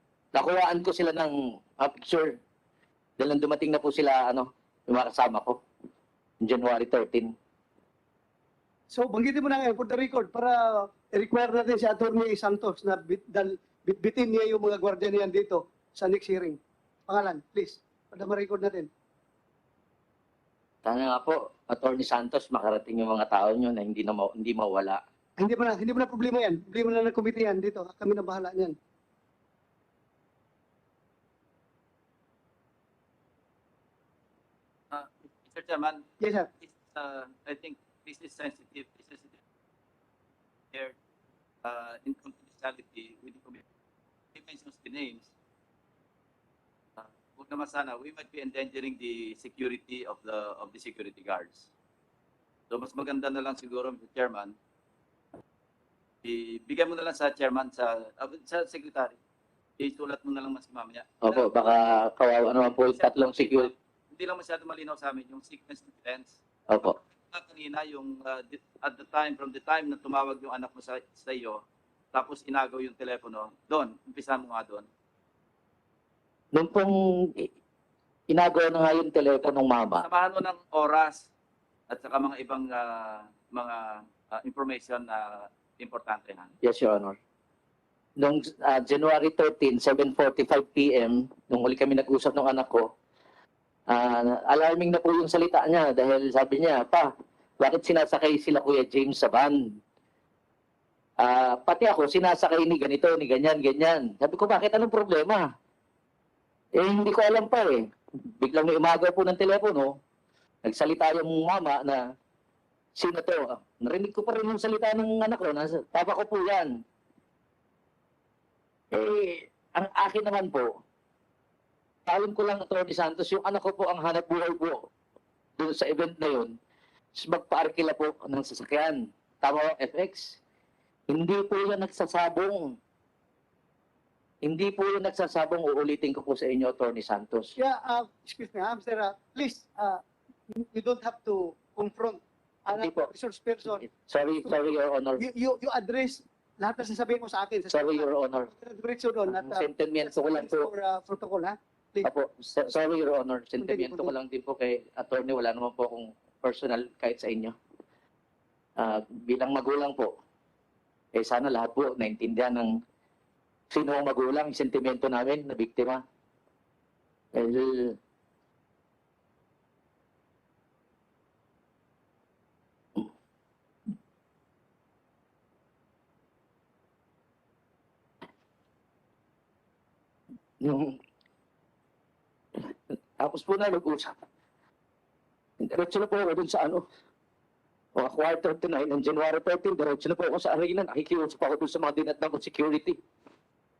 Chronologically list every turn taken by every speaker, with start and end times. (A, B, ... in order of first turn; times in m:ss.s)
0:00.3-0:02.4 A
0:03.2-0:05.6 A
0:06.4-0:07.3 A
0:08.9-0:18.9 B
0:20.8-0:25.0 A
0:25.4-0:28.7 B
0:34.9-0:36.0 C
0:36.2-0:36.5 B
0:36.6-0:39.4 C
0:41.6-0:43.6 C
0:44.3-0:45.3 C
0:47.0-0:51.7 C
0:52.7-0:54.5 C
0:56.2-0:59.2 C
0:59.8-1:01.7 C
1:01.2-1:03.7 A
1:02.8-1:11.6 C
1:06.7-1:07.0 A
1:12.1-1:14.9 C
1:16.5-1:17.5 A
1:18.3-1:20.0 A
1:20.0-1:21.3 C
1:21.9-1:26.5 C
1:26.6-1:27.2 A
1:28.2-1:32.9 A
1:33.9-1:37.1 A
1:37.6-1:39.6 A
1:41.2-1:45.4 A
1:46.8-1:47.8 A
1:48.4-1:49.9 A
1:50.6-1:52.0 A
1:52.9-1:56.7 A
1:58.9-2:00.7 A
2:02.1-2:04.8 A
2:05.6-2:06.5 A
2:07.2-2:10.4 A
2:11.1-2:12.7 A
2:14.4-2:17.5 A
2:17.6-2:20.0 B
2:20.5-2:23.8 B
2:22.7-2:23.1 A
2:23.9-2:25.2 A
2:25.2-2:32.1 B
2:27.7-2:28.5 A
2:29.3-2:30.6 A
2:32.0-2:37.5 A
2:33.6-2:34.1 B
2:38.8-2:40.1 A
2:41.1-2:42.7 A
2:43.7-2:46.0 A
2:47.3-2:48.0 A
3:00.6-3:01.0 A
3:02.7-3:04.1 A
3:05.6-3:06.8 A
3:08.0-3:13.0 A